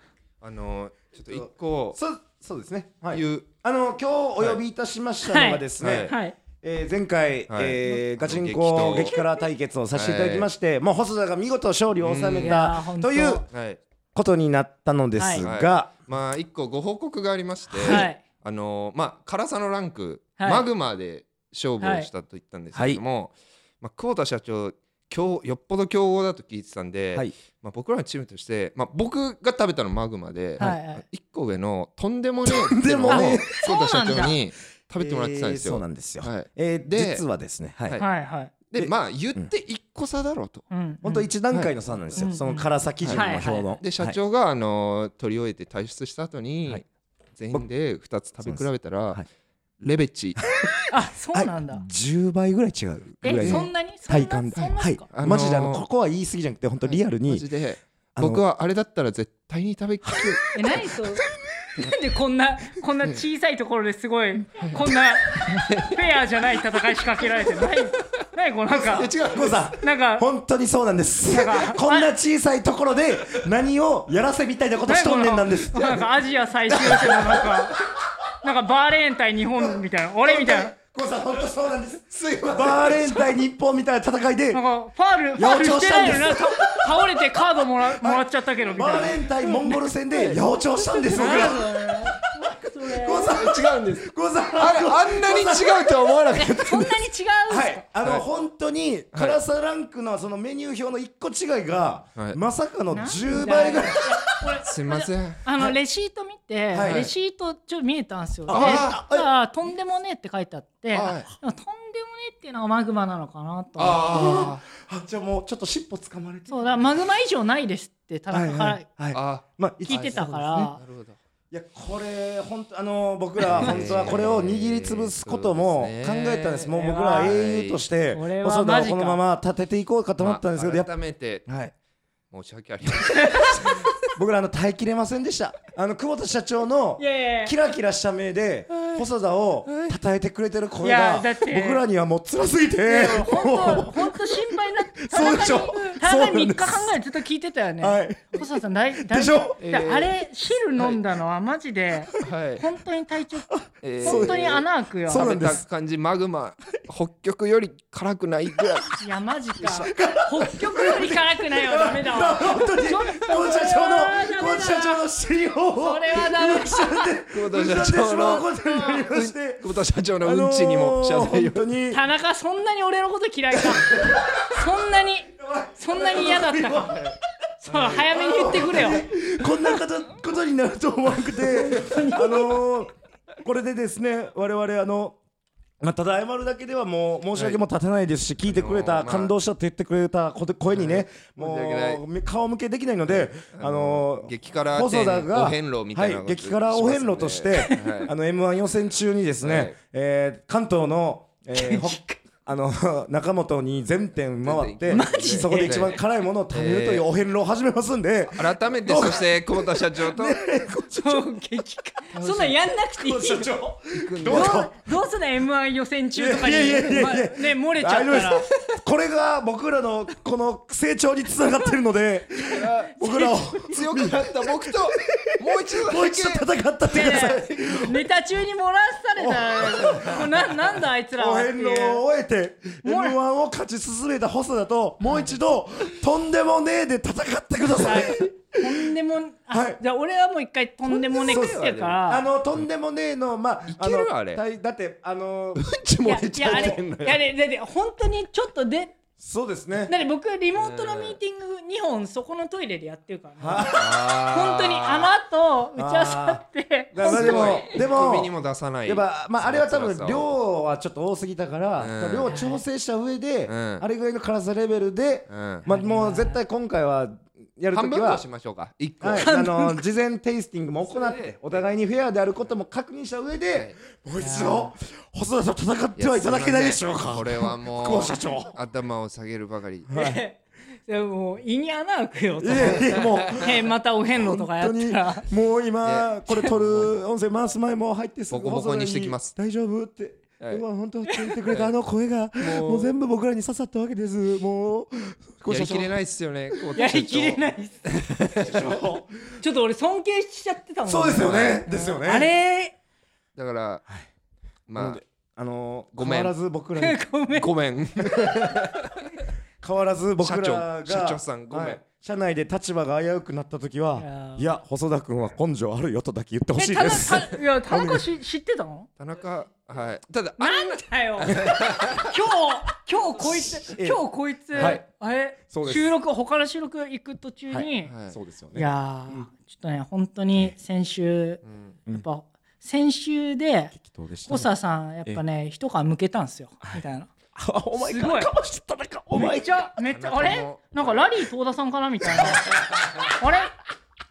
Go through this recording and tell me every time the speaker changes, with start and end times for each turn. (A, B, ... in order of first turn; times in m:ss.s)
0:00.4-0:02.0 A
0:01.3-0:13.4 B
0:03.1-0:03.5 A
0:05.2-0:06.4 C
0:05.8-0:06.1 A
0:07.5-0:09.2 A
0:09.9-0:10.5 A
0:12.0-0:12.6 A
0:12.4-0:13.4 C
0:13.5-0:13.8 A
0:14.1-0:15.9 B
0:15.2-0:15.4 C
0:15.4-0:37.2 A
0:17.7-0:18.1 B
0:17.8-0:18.2 C
0:20.4-0:20.7 C
0:21.8-0:22.1 C
0:22.7-0:23.0 B
0:30.6-0:31.0 C
0:32.4-0:33.5 B
0:33.1-0:34.4 C
0:35.0-0:38.0 B
0:38.0-0:38.5 C
0:38.7-0:40.6 A
0:38.8-0:39.5 B
0:40.7-0:41.3 C
0:41.0-0:44.2 B
0:42.1-0:43.7 C
0:43.8-0:46.8 A
0:47.4-0:49.2 A
0:48.4-0:49.2 B
0:49.8-0:50.4 A
0:50.4-0:57.4 B
0:50.9-0:51.8 C
0:53.2-0:55.1 C
0:53.3-0:53.7 A
0:54.6-0:55.8 A
0:56.8-1:00.6 A
0:58.2-0:58.4 B
1:00.0-1:00.7 B
1:00.5-1:09.1 C
1:05.5-1:05.9 A
1:08.8-1:16.0 B
1:08.9-1:09.6 A
1:09.8-1:10.2 C
1:11.2-1:12.1 C
1:14.8-1:20.7 C
1:16.7-1:17.7 B
1:19.6-1:24.6 B
1:22.1-1:23.3 A
1:24.5-1:33.5 C
1:25.4-1:26.8 B
1:28.0-1:31.9 B
1:31.1-1:31.5 A
1:32.8-1:36.8 B
1:33.2-1:36.9 A
1:36.3-1:37.8 C
1:37.5-1:44.4 B
1:39.1-1:39.4 A
1:42.9-1:54.5 C
1:44.6-1:45.4 A
1:46.7-1:47.1 B
1:46.8-1:47.1 A
1:48.5-1:49.2 B
1:48.5-1:49.0 A
1:50.9-1:51.3 A
1:53.8-1:54.6 A
1:54.1-1:56.8 B
1:56.5-1:58.8 C
1:58.3-2:00.7 B
1:59.1-2:01.2 A
1:59.9-2:00.8 C
2:01.5-2:10.9 B
2:03.5-2:07.8 A
2:06.7-2:07.4 C
2:08.1-2:09.2 C
2:10.2-2:11.4 A
2:11.4-2:11.7 B
2:12.3-2:13.9 A
2:13.1-2:13.9 C
2:14.1-2:27.0 B
2:17.0-2:17.5 C
2:19.6-2:20.0 A
2:20.8-2:21.8 C
2:22.8-2:35.6 C
2:27.8-2:29.6 B
2:29.6-2:30.1 A
2:32.2-2:32.6 A
2:33.5-2:35.6 B
2:33.8-2:39.0 A
2:39.0-2:45.0 C
2:39.6-2:49.7 B
2:45.7-2:47.1 C
2:47.3-2:51.7 A
2:50.2-2:52.0 B
2:51.9-2:57.1 C
2:53.5-2:54.6 B
2:55.4-2:57.1 B
2:57.6-2:59.8 C
2:57.7-3:05.2 B
3:01.4-3:02.6 C
3:05.8-3:31.3 B
3:07.3-3:07.6 A
3:08.4-3:09.3 A
3:10.7-3:12.0 A
3:13.1-3:18.1 A
3:19.4-3:19.8 A
3:21.5-3:22.2 C
3:24.4-3:25.9 A
3:24.9-3:25.9 C
3:26.5-3:27.0 A
3:28.3-3:30.5 A
3:31.0-3:33.5 C
3:32.1-3:34.8 B
3:33.9-3:34.7 A
3:34.2-3:38.8 C
3:36.1-3:48.0 B
3:42.4-3:43.5 C
3:42.5-3:47.8 A
3:46.9-3:52.0 C
3:49.2-3:58.9 B
3:52.8-3:53.2 C
3:57.7-4:02.2 C
3:59.5-3:59.8 B
4:00.9-4:02.0 A
4:01.1-4:07.2 B
4:03.7-4:04.4 A
4:05.6-4:07.0 A
4:06.0-4:09.0 C
4:09.2-4:09.9 B
4:09.8-4:17.8 C
4:10.6-4:11.2 A
4:13.4-4:14.2 B
4:13.7-4:15.1 A
4:15.8-4:16.4 B
4:16.9-4:18.3 B
4:17.0-4:20.3 A
4:18.8-4:28.2 B
4:21.8-4:22.3 A
4:22.2-4:22.6 C
4:23.5-4:23.8 A
4:25.3-4:25.7 A
4:25.7-4:26.4 C
4:27.7-4:29.3 A
4:29.0-4:38.6 B
4:29.2-4:29.8 C
4:30.8-4:31.6 A
4:34.2-4:34.7 C
4:36.0-4:39.9 A
4:39.9-4:40.2 B
4:39.9-4:45.2 C
4:42.4-4:56.0 B
4:42.6-4:43.4 A
4:45.8-4:47.0 A
4:48.3-4:49.3 A
4:52.4-4:52.9 A
4:55.5-4:58.6 A
4:56.8-4:57.9 C
4:58.4-4:59.4 B
4:59.4-5:02.7 C
5:00.8-5:02.3 B
5:01.2-5:01.6 A
5:03.4-5:03.8 A
5:04.7-5:05.0 A
5:04.8-5:07.0 B
5:05.9-5:06.3 A
5:06.8-5:07.5 C
5:07.3-5:09.0 A
5:08.0-5:08.6 B
5:09.6-5:18.0 B
5:10.2-5:11.8 A
5:14.0-5:14.5 C
5:16.6-5:18.9 C
5:19.0-5:22.1 A
5:20.4-5:27.9 C
5:23.2-5:24.0 B
5:24.5-5:24.8 B
5:24.6-5:24.8 A
5:25.5-5:25.9 B
5:27.5-5:29.3 B
5:27.8-5:28.1 A
5:28.5-5:37.1 C
5:31.4-5:31.8 A
5:33.7-5:34.5 B
5:37.4-5:39.7 B
5:37.7-5:38.3 C
5:39.1-5:43.5 C
5:39.9-5:41.0 A